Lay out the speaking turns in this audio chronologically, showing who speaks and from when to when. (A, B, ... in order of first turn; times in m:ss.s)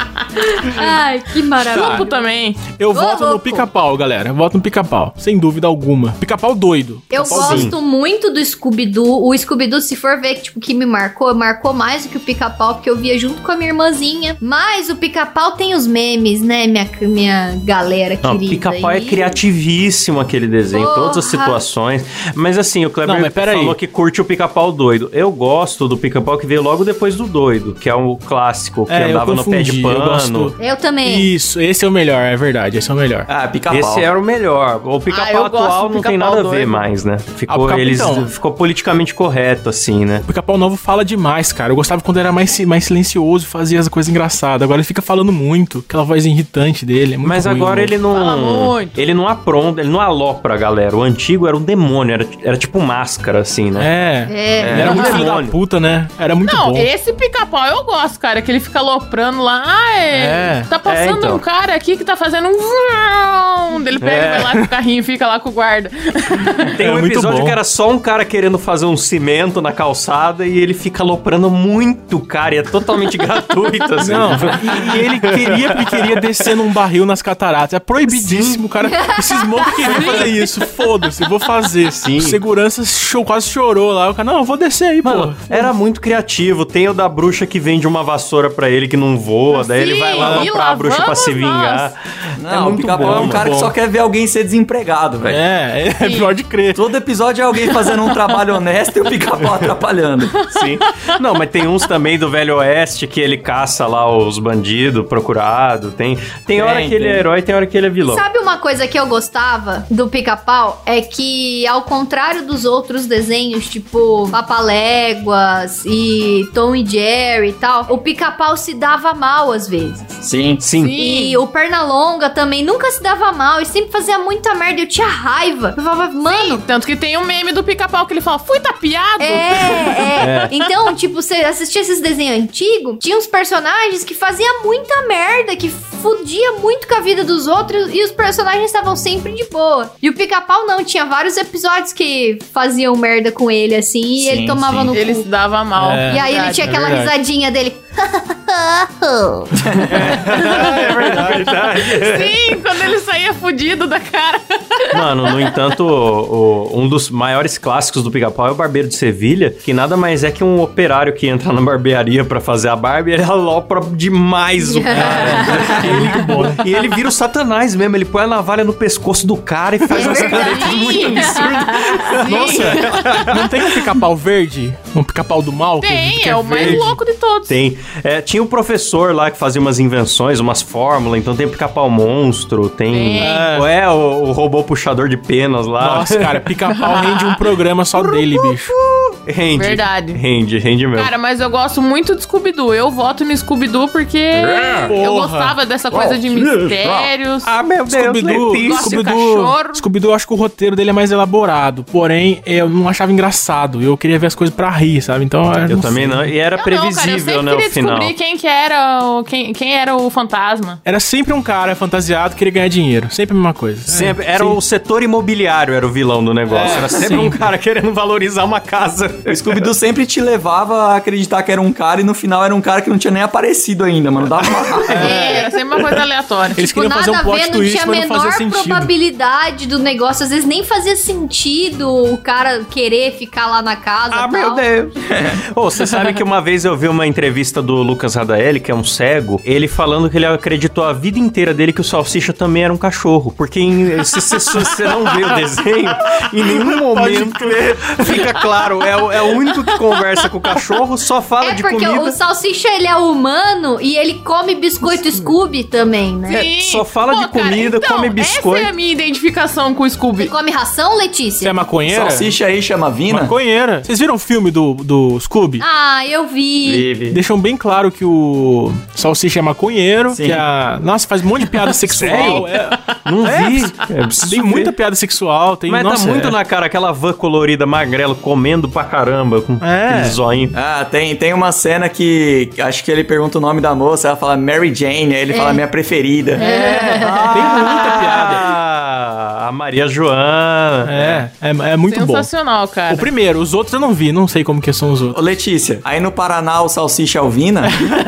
0:00.4-0:02.2 A
0:01.6-0:02.6 B
0:01.7-0:02.0 C
0:02.8-0:07.7 C
0:02.9-0:03.6 A
0:07.1-0:19.4 A
0:07.2-0:07.8 D
0:18.2-0:30.5 D
0:20.7-0:21.6 A
0:23.0-0:23.8 C
0:28.9-0:33.3 C
0:30.6-0:31.3 A
0:33.3-0:34.0 E
0:33.7-0:40.2 D
0:35.1-0:36.9 B
0:37.5-0:38.3 C
0:40.2-0:47.9 C
0:47.2-0:53.9 D
0:48.1-0:49.0 B
0:53.8-0:56.9 C
0:54.3-0:55.1 A
0:54.6-0:55.0 E
0:54.6-0:55.6 D
0:56.4-1:06.7 B
1:00.1-1:00.7 C
1:00.8-1:01.4 D
1:04.0-1:04.5 D
1:06.6-1:16.5 D
1:06.8-1:07.6 C
1:14.0-1:25.7 C
1:18.1-1:18.6 D
1:18.9-1:20.2 A
1:19.9-1:20.3 B
1:22.0-1:22.4 D
1:25.0-1:33.5 D
1:29.5-1:31.9 B
1:30.2-1:30.5 C
1:32.4-1:35.4 E
1:32.9-1:33.7 C
1:35.2-1:36.8 C
1:36.0-1:36.3 B
1:36.7-1:40.4 E
1:40.4-1:41.2 B
1:40.5-1:48.2 D
1:46.5-1:47.2 E
1:48.0-2:00.2 A
2:00.2-2:00.6 E
2:00.6-2:01.0 D
2:00.8-2:01.4 B
2:01.0-2:06.6 A
2:06.2-2:10.7 B
2:09.2-2:25.3 A
2:10.2-2:10.5 D
2:24.2-2:24.9 E
2:24.9-2:26.7 B
2:25.8-2:27.1 C
2:26.1-2:29.6 A
2:29.6-2:30.0 E
2:29.8-2:32.4 D
2:30.1-2:31.5 C
2:31.8-2:35.5 B
2:34.9-2:53.9 D
2:44.6-2:46.4 A
2:44.9-2:46.7 C
2:49.9-2:52.2 A
2:49.9-2:53.3 B
2:52.2-2:57.0 C
2:55.8-2:57.5 B
2:56.5-2:56.9 D
2:57.5-3:06.5 D
3:02.9-3:03.4 B
3:03.2-3:03.7 C
3:05.8-3:08.7 C
3:06.7-3:07.4 B
3:08.0-3:11.1 D
3:09.5-3:10.2 B
3:11.0-3:17.5 B
3:14.9-3:15.6 C
3:15.9-3:17.1 E
3:17.4-3:19.0 D
3:17.9-3:26.3 C
3:18.6-3:19.8 B
3:25.6-3:28.1 D
3:26.6-3:30.8 B
3:30.8-3:34.6 C
3:33.9-3:39.4 D
3:36.5-3:37.4 C
3:39.3-3:45.1 E
3:44.9-3:45.3 C
3:45.0-3:46.6 B
3:45.0-3:45.5 A
3:46.6-3:48.9 C
3:46.6-3:54.6 A
3:54.1-4:12.2 D
4:04.5-4:05.1 C
4:06.1-4:08.4 C
4:11.4-4:16.5 A
4:14.9-4:15.3 C
4:16.3-4:20.3 B
4:16.5-4:18.7 D
4:20.2-4:21.6 A
4:21.4-4:22.3 C
4:21.9-4:23.3 E
4:23.1-4:25.6 C
4:25.6-4:26.9 A
4:26.6-4:27.2 E
4:27.1-4:36.4 C
4:30.1-4:30.4 E
4:31.8-4:32.5 D
4:33.0-4:34.7 D
4:35.7-4:40.5 D
4:39.6-4:40.2 C
4:40.5-4:46.4 E
4:45.3-4:45.6 A
4:46.4-4:47.4 A
4:46.4-4:48.5 C
4:46.9-4:51.2 D
4:50.8-4:52.3 C
4:51.9-4:53.1 B
4:52.9-4:55.2 C
4:55.1-4:57.8 E